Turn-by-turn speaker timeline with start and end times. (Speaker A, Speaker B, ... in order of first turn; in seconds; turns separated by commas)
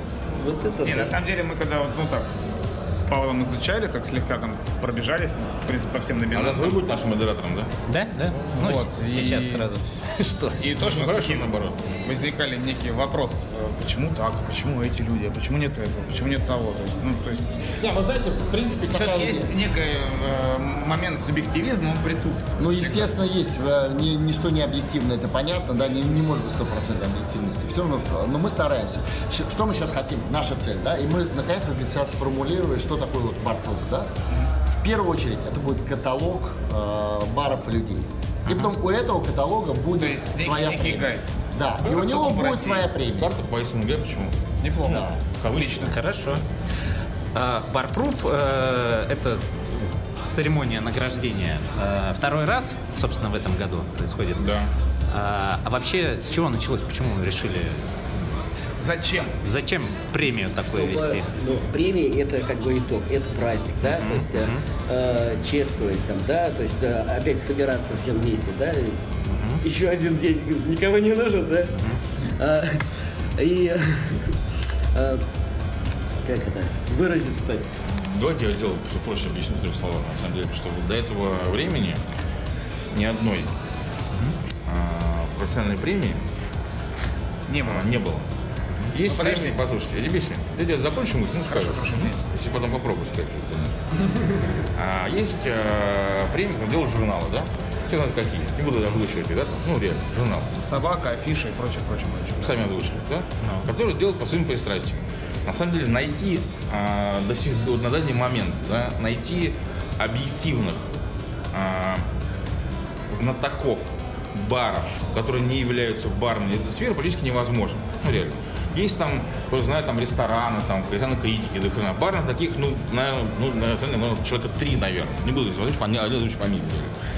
Speaker A: 0.4-1.1, Speaker B: 0.8-6.9, Speaker C: 6.3-7.7, Speaker D: 7.9-10.6, Speaker B: 8.5-9.6, Speaker B: 10.6-17.6, Speaker C: 10.8-11.8, Speaker E: 17.8-19.5, Speaker B: 18.9-23.1, Speaker E: 22.6-34.1, Speaker E: 34.7-43.3, Speaker B: 40.0-41.2, Speaker B: 41.8-42.9, Speaker C: 43.1-44.4, Speaker B: 44.6-45.1, Speaker E: 44.9-45.1, Speaker C: 44.9-46.4, Speaker D: 45.8-46.4, Speaker D: 47.3-54.5, Speaker C: 54.4-54.7, Speaker D: 55.1-57.9, Speaker B: 58.8-59.4, Speaker D: 59.4-61.2, Speaker A: 60.3-69.0, Speaker D: 63.9-64.6, Speaker D: 69.3-69.6, Speaker A: 69.6-71.8, Speaker A: 72.4-72.8, Speaker A: 73.4-74.3, Speaker A: 74.9-75.2, Speaker A: 76.2-77.7, Speaker C: 77.9-82.0, Speaker C: 82.9-83.5, Speaker C: 84.6-86.2, Speaker B: 87.5-88.0, Speaker C: 87.6-88.3, Speaker C: 88.9-93.8, Speaker B: 89.0-89.6, Speaker B: 91.5-92.3, Speaker C: 94.7-100.5, Speaker B: 100.5-102.6, Speaker C: 102.4-110.9, Speaker D: 103.4-103.7, Speaker C: 111.5-112.0, Speaker C: 113.1-126.9